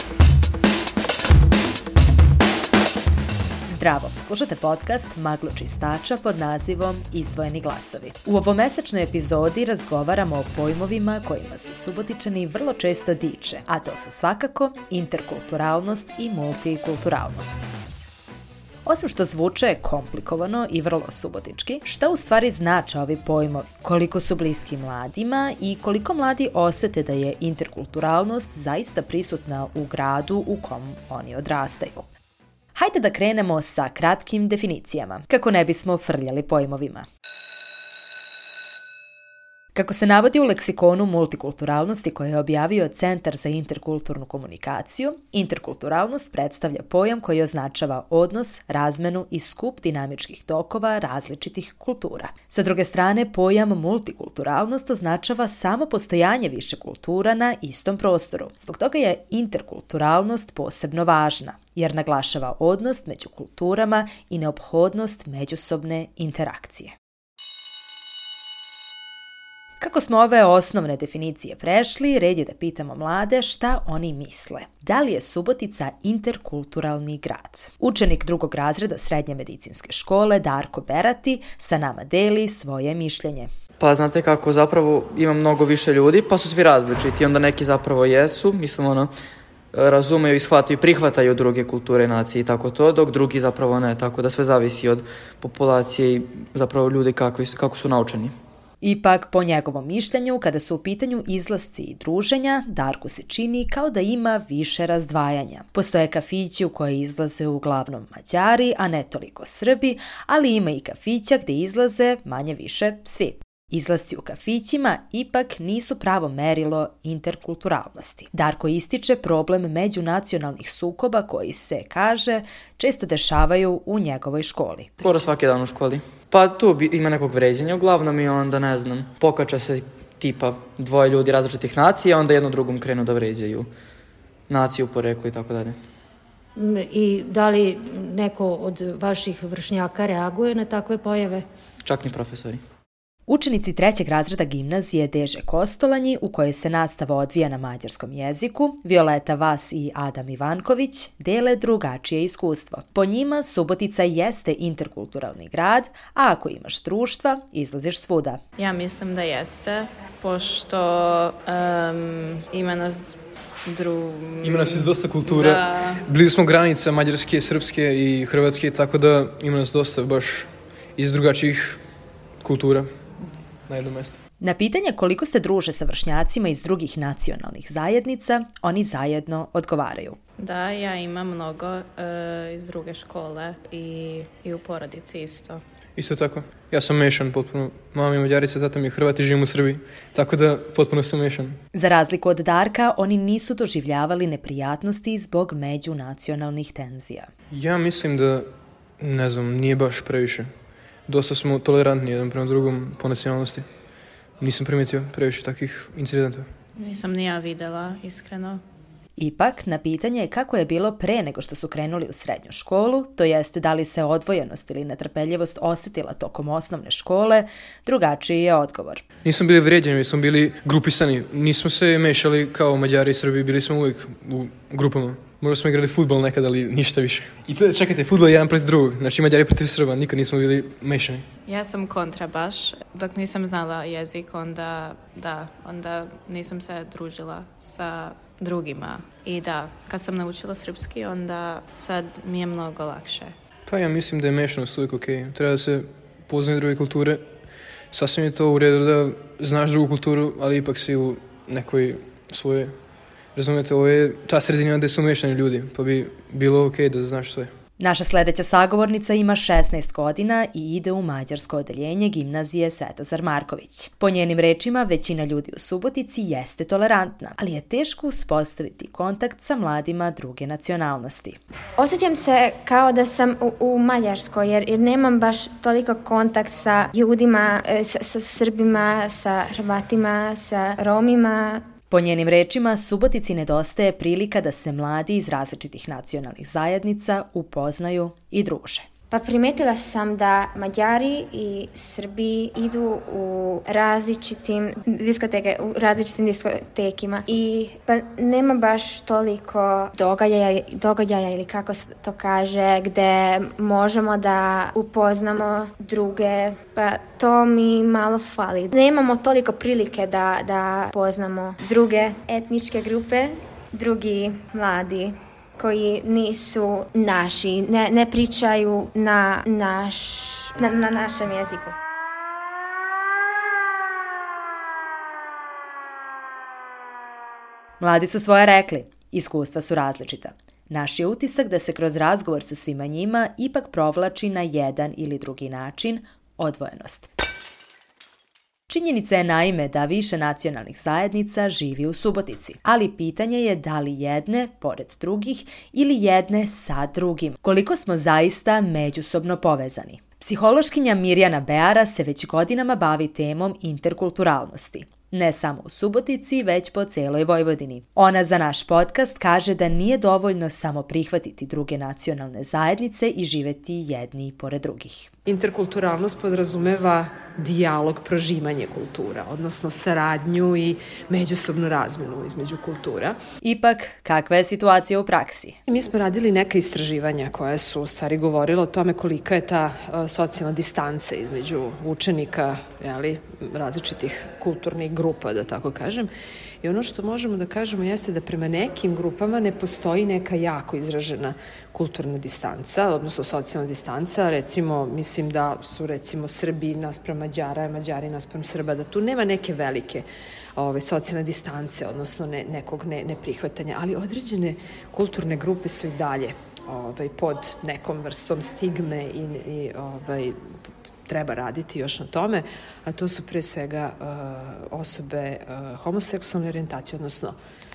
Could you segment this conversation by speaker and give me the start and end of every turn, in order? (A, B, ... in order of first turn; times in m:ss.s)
0:03.7-0:17.7 A
0:18.8-0:32.1 A
0:32.8-0:37.0 A
0:39.7-1:06.9 A
1:09.8-1:23.5 A
1:23.8-1:29.1 B
1:29.7-1:38.3 B
1:38.8-2:05.0 A
2:05.0-2:13.7 B
2:14.5-2:15.8 B
2:16.6-2:21.4 C
2:21.8-2:22.6 B
2:23.3-2:38.4 A
2:38.6-2:46.0 D
2:44.4-2:51.8 E
2:52.4-2:52.9 E
2:53.7-2:54.2 E
2:54.4-3:00.2 A
3:00.4-3:05.6 D
3:06.0-3:11.6 E
3:11.7-3:17.3 A
3:17.5-3:18.5 E
3:19.0-3:20.5 E
3:21.1-3:23.7 E
3:24.4-3:26.5 E
3:26.8-3:28.6 D
3:29.2-3:39.0 A
3:39.2-3:51.3 E
3:51.4-4:03.3 D
4:03.7-4:12.7 E
4:13.3-4:17.5 E
4:17.8-4:31.4 A
4:31.8-4:41.6 F
4:41.9-4:48.8 A
4:49.1-5:21.7 F
5:27.8-5:37.1 A
5:38.7-6:05.1 A
6:05.3-6:13.2 G
6:13.4-6:15.6 A
6:15.7-6:26.1 G
6:26.6-6:50.4 G
6:51.1-6:57.4 G